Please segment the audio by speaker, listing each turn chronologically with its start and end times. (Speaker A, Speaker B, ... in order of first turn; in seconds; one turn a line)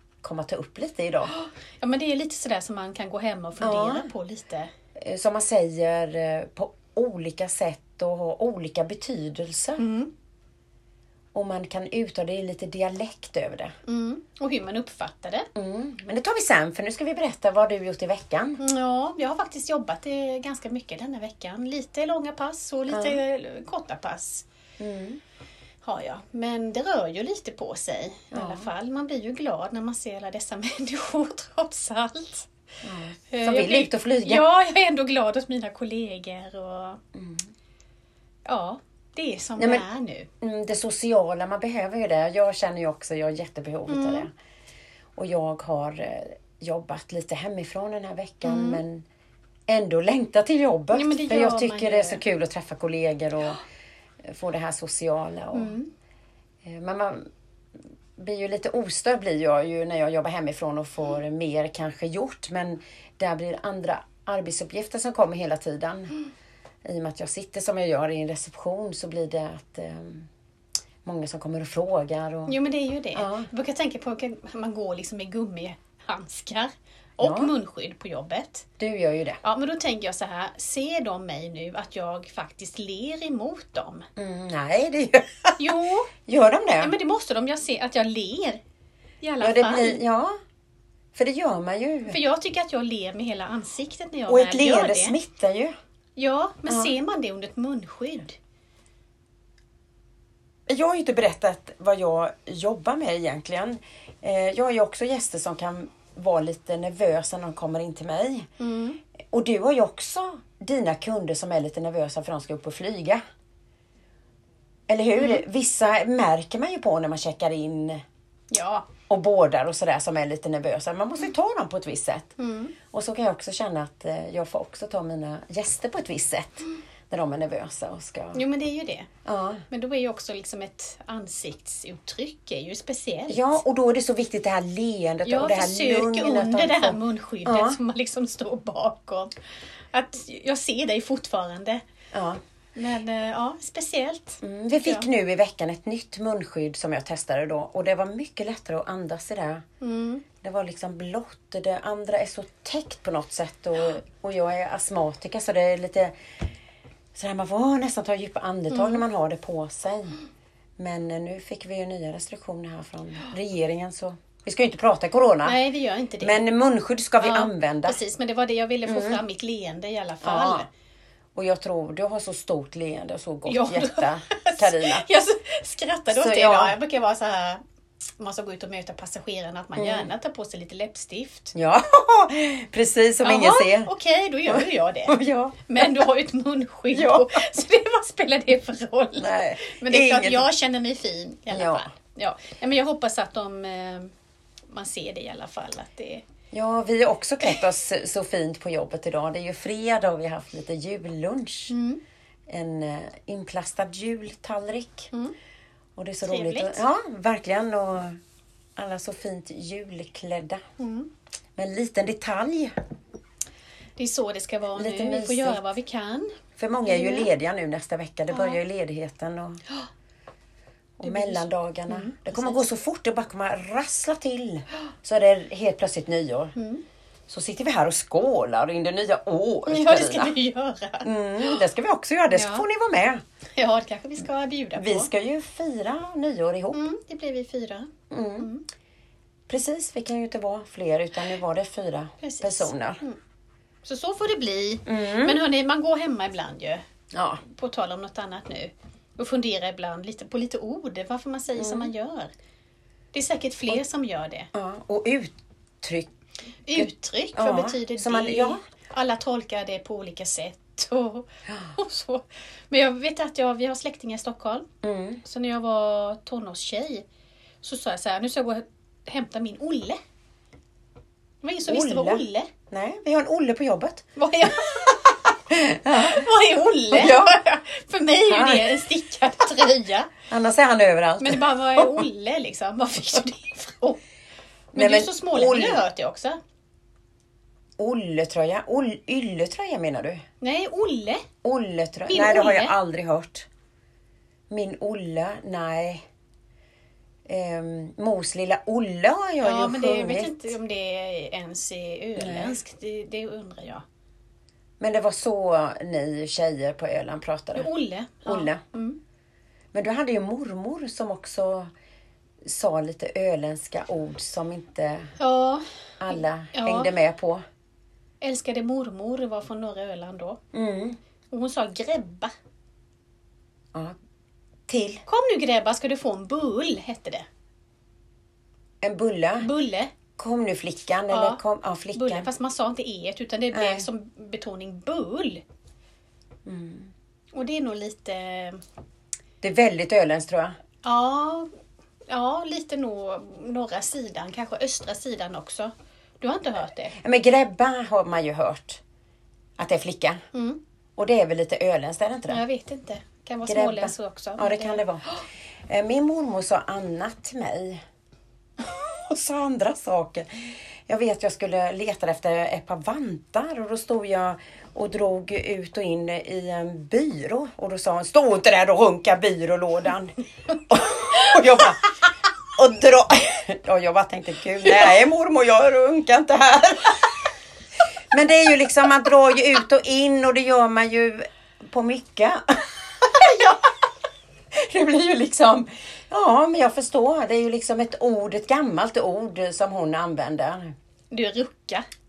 Speaker A: 0.2-1.3
Speaker B: 1.3-4.7
Speaker A: 3.6-4.1
Speaker A: 5.0-9.8
Speaker B: 9.8-10.1
Speaker A: 11.3-13.8
Speaker B: 13.9-15.5
Speaker A: 15.6-18.6
Speaker B: 18.6-24.5
Speaker A: 22.9-23.2
Speaker A: 24.8-25.2
Speaker B: 25.8-32.5
Speaker A: 28.3-28.7
Speaker A: 32.8-34.5
Speaker B: 33.3-37.0
Speaker A: 37.1-37.5
Speaker B: 38.5-40.3
Speaker A: 39.6-39.9
Speaker A: 40.4-44.3
Speaker B: 43.9-44.3
Speaker A: 45.2-49.0
Speaker B: 48.4-48.8
Speaker A: 49.7-53.6
Speaker B: 50.9-52.2
Speaker A: 54.2-55.8
Speaker B: 55.5-55.9
Speaker A: 56.6-57.3
Speaker A: 58.2-66.2
Speaker A: 66.8-70.3
Speaker A: 71.0-72.5
Speaker B: 72.5-78.7
Speaker A: 73.2-73.5
Speaker A: 77.2-77.5
Speaker A: 78.8-79.4
Speaker B: 79.4-84.1
Speaker A: 84.2-85.7
Speaker B: 85.6-86.1
Speaker A: 86.3-87.0
Speaker B: 86.8-88.6
Speaker B: 89.2-90.0
Speaker A: 89.4-90.4
Speaker A: 91.2-92.2
Speaker B: 92.1-95.2
Speaker A: 94.3-95.8
Speaker B: 96.2-98.4
Speaker A: 96.7-96.9
Speaker A: 100.7-108.5
Speaker B: 108.6-109.0
Speaker A: 109.3-113.2
Speaker A: 114.9-118.0
Speaker B: 118.5-118.9
Speaker A: 119.1-122.3
Speaker B: 122.4-122.8
Speaker A: 122.9-128.4
Speaker B: 128.3-129.1
Speaker A: 129.2-129.6
Speaker B: 129.7-133.6
Speaker A: 133.3-137.8
Speaker B: 135.2-139.3
Speaker B: 139.9-141.8
Speaker A: 142.1-142.4
Speaker B: 142.8-145.1
Speaker A: 144.4-149.6
Speaker B: 149.8-150.2
Speaker A: 150.4-156.2
Speaker A: 157.2-160.2
Speaker B: 158.7-159.0
Speaker A: 160.8-165.6
Speaker B: 165.4-166.4
Speaker A: 166.2-168.0
Speaker B: 167.2-170.7
Speaker A: 168.8-169.2
Speaker A: 170.2-170.7
Speaker A: 171.3-175.1
Speaker B: 173.5-177.6
Speaker A: 176.1-176.8
Speaker B: 178.2-181.5
Speaker A: 179.8-180.1
Speaker A: 181.5-183.9
Speaker B: 183.2-194.1
Speaker A: 184.5-186.1
Speaker A: 186.9-187.4
Speaker A: 189.2-190.5
Speaker A: 191.5-191.9
Speaker B: 194.7-196.2
Speaker A: 196.5-201.8
Speaker B: 201.7-202.0
Speaker A: 202.5-205.1
Speaker A: 206.0-208.2
Speaker B: 206.2-206.8
Speaker A: 208.8-210.6
Speaker B: 210.8-211.1
Speaker A: 211.6-212.8
Speaker B: 214.0-217.3
Speaker A: 214.8-215.6
Speaker A: 216.6-219.6
Speaker A: 221.0-226.6
Speaker B: 221.0-222.7
Speaker B: 226.6-226.8
Speaker A: 227.3-230.4
Speaker B: 229.7-231.6
Speaker A: 231.0-233.2
Speaker B: 232.3-232.7
Speaker B: 233.6-235.1
Speaker A: 234.8-236.8
Speaker B: 236.7-238.7
Speaker A: 238.1-238.5
Speaker A: 239.5-243.0
Speaker B: 242.2-243.2
Speaker B: 243.8-246.8
Speaker A: 244.9-245.4
Speaker A: 247.1-247.4
Speaker B: 247.4-252.3
Speaker A: 251.6-251.9
Speaker B: 253.1-254.5
Speaker A: 254.5-256.1
Speaker B: 256.7-264.7
Speaker A: 256.8-258.6
Speaker A: 261.5-261.8
Speaker A: 264.8-265.2
Speaker B: 265.2-267.1
Speaker B: 267.6-270.0
Speaker B: 271.4-272.5
Speaker A: 271.7-274.1
Speaker B: 274.2-275.2
Speaker A: 275.5-276.3
Speaker B: 275.9-280.1
Speaker A: 276.9-277.4
Speaker A: 278.3-278.8
Speaker A: 280.3-282.1
Speaker B: 281.2-284.0
Speaker A: 284.7-285.8
Speaker B: 284.8-286.4
Speaker A: 287.8-290.2
Speaker B: 290.4-291.2
Speaker A: 291.4-293.5
Speaker B: 292.1-292.8
Speaker A: 294.5-296.1
Speaker A: 297.3-300.5
Speaker B: 299.4-303.9
Speaker A: 302.2-302.6
Speaker A: 304.8-307.7
Speaker B: 307.6-309.0
Speaker A: 308.2-308.6
Speaker A: 309.7-311.7
Speaker A: 312.4-315.1
Speaker B: 315.2-315.6
Speaker A: 316.0-317.4
Speaker B: 316.5-316.9
Speaker B: 318.2-320.4
Speaker A: 320.5-321.0
Speaker B: 321.3-322.3
Speaker A: 324.7-325.0
Speaker B: 325.1-327.3
Speaker A: 328.8-329.5
Speaker B: 329.4-329.9
Speaker A: 330.2-332.3
Speaker B: 331.1-331.4
Speaker B: 331.9-335.4
Speaker A: 333.5-333.9
Speaker A: 336.5-336.9
Speaker B: 337.3-338.6
Speaker A: 339.4-340.6
Speaker B: 340.8-341.5
Speaker B: 342.1-347.0
Speaker A: 347.0-348.8
Speaker A: 349.6-350.2
Speaker B: 350.3-350.6
Speaker A: 351.0-352.4
Speaker B: 352.3-354.8
Speaker A: 353.4-355.0
Speaker A: 355.7-357.8
Speaker A: 358.6-377.2
Speaker A: 378.1-383.6
Speaker A: 384.5-390.7
Speaker B: 391.1-391.9